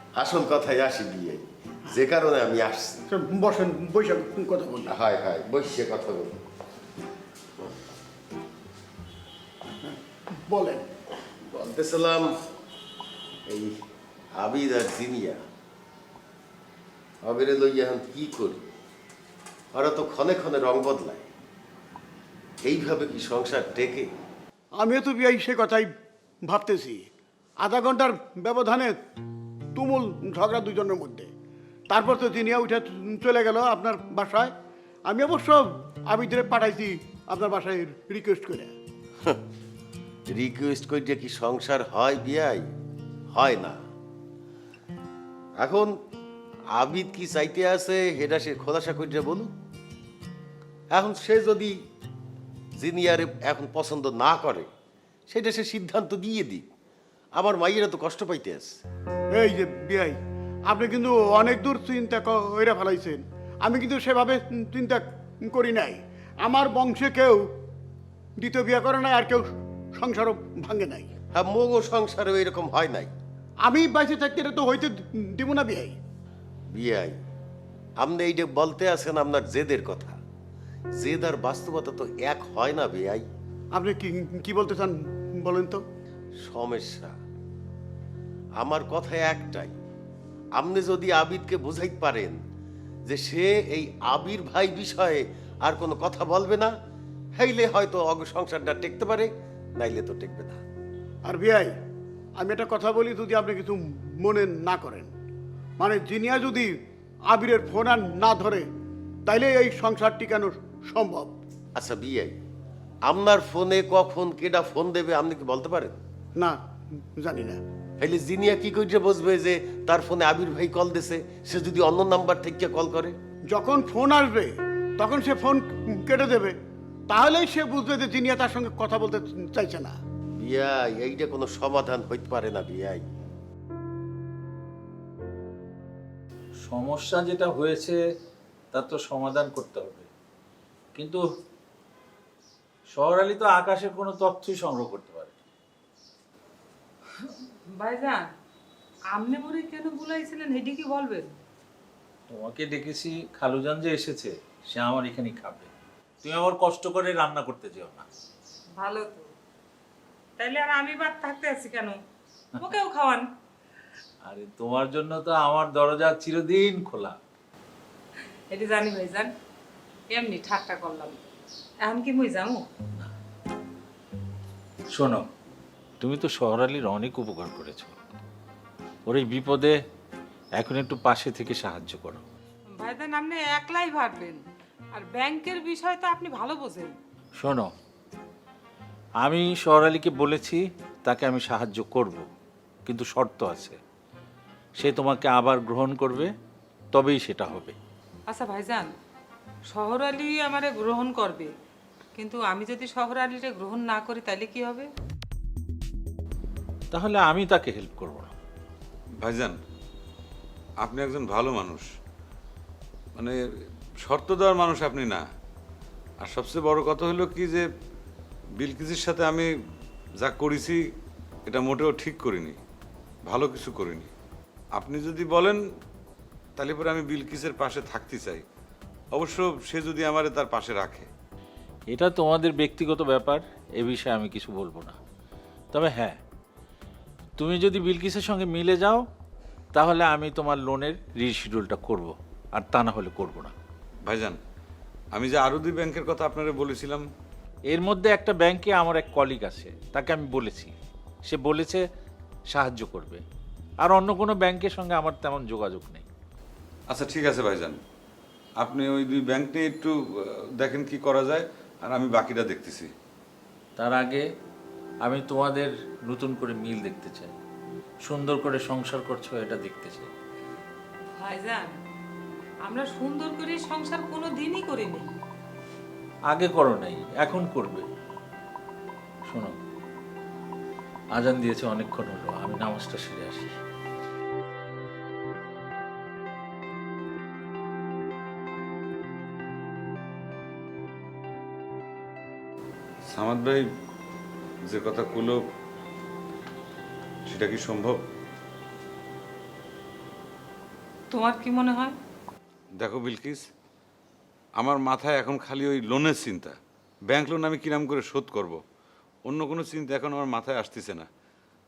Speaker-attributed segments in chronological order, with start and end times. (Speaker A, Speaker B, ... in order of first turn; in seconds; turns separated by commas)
Speaker A: 0.1-3.0, Speaker B: 3.1-5.0, Speaker A: 4.9-6.4, Speaker B: 9.9-10.9, Speaker A: 11.5-12.3, Speaker A: 13.5-13.8, Speaker A: 14.4-15.4, Speaker A: 17.2-18.6, Speaker A: 19.7-21.3, Speaker A: 22.6-24.1, Speaker B: 24.8-25.9, Speaker B: 26.5-27.1, Speaker B: 27.6-29.0, Speaker B: 29.8-31.3, Speaker B: 31.9-34.5, Speaker B: 35.1-38.7, Speaker A: 40.3-42.6, Speaker A: 43.3-43.8, Speaker A: 45.6-46.0, Speaker A: 46.7-49.5, Speaker A: 50.9-51.8, Speaker A: 52.8-54.7, Speaker A: 55.3-56.7, Speaker A: 57.4-58.8, Speaker B: 59.4-60.2, Speaker B: 60.7-67.5, Speaker B: 68.4-69.5, Speaker B: 70.0-71.2, Speaker A: 71.3-73.1, Speaker B: 73.7-76.0, Speaker A: 76.7-77.2, Speaker A: 78.0-80.2, Speaker A: 81.0-83.3, Speaker B: 83.7-85.8, Speaker A: 86.4-87.1, Speaker A: 88.6-89.8, Speaker A: 90.5-92.4, Speaker A: 93.1-96.7, Speaker A: 97.4-100.6, Speaker B: 101.2-101.7, Speaker B: 102.4-105.1, Speaker B: 105.8-106.7, Speaker B: 107.3-108.7, Speaker B: 109.3-111.4, Speaker A: 111.8-112.4, Speaker A: 113.0-116.0, Speaker B: 116.4-117.6, Speaker A: 118.0-123.2, Speaker B: 123.5-126.6, Speaker B: 127.1-130.0, Speaker A: 130.4-133.1, Speaker C: 136.6-138.0, Speaker C: 138.7-140.1, Speaker C: 140.9-141.2, Speaker C: 142.9-145.4, Speaker D: 147.2-148.3, Speaker D: 149.1-151.3, Speaker C: 152.3-155.7, Speaker C: 156.2-158.1, Speaker D: 158.8-159.3, Speaker D: 160.4-162.0, Speaker D: 162.6-163.3, Speaker C: 164.2-167.2, Speaker D: 168.5-169.3, Speaker D: 170.1-171.2, Speaker D: 171.8-172.7, Speaker C: 174.9-175.3, Speaker C: 176.0-177.9, Speaker C: 179.1-179.8, Speaker C: 180.6-182.2, Speaker D: 182.8-184.4, Speaker D: 184.9-186.9, Speaker C: 187.4-187.7, Speaker C: 189.2-192.2, Speaker C: 192.9-193.8, Speaker C: 194.8-196.3, Speaker C: 196.9-197.8, Speaker D: 198.3-198.9, Speaker D: 199.7-201.5, Speaker D: 202.2-204.9, Speaker C: 206.9-208.3, Speaker E: 209.2-209.6, Speaker E: 210.8-211.9, Speaker E: 214.1-215.3, Speaker E: 216.2-217.7, Speaker E: 218.6-219.5, Speaker E: 220.2-220.8, Speaker E: 221.5-222.6, Speaker E: 223.3-224.1, Speaker E: 224.8-225.6, Speaker E: 226.6-228.4, Speaker E: 229.1-231.1, Speaker C: 231.9-235.0, Speaker C: 235.7-236.2, Speaker C: 237.4-239.0, Speaker C: 239.7-243.5, Speaker E: 244.1-244.4, Speaker E: 245.2-247.1, Speaker C: 247.7-250.7, Speaker C: 251.3-251.8, Speaker C: 252.5-253.2, Speaker C: 253.8-256.1, Speaker E: 256.9-257.8, Speaker E: 258.6-262.9, Speaker C: 263.8-264.2, Speaker C: 265.0-267.4, Speaker C: 268.1-270.1, Speaker D: 271.2-271.8, Speaker D: 272.7-275.2, Speaker C: 276.3-277.8, Speaker C: 279.3-279.5, Speaker C: 281.2-283.5, Speaker E: 293.1-293.7, Speaker E: 294.7-295.4, Speaker E: 297.3-298.0, Speaker D: 301.1-302.0, Speaker E: 302.8-303.4, Speaker E: 304.6-306.6, Speaker E: 307.1-308.6, Speaker E: 309.3-311.1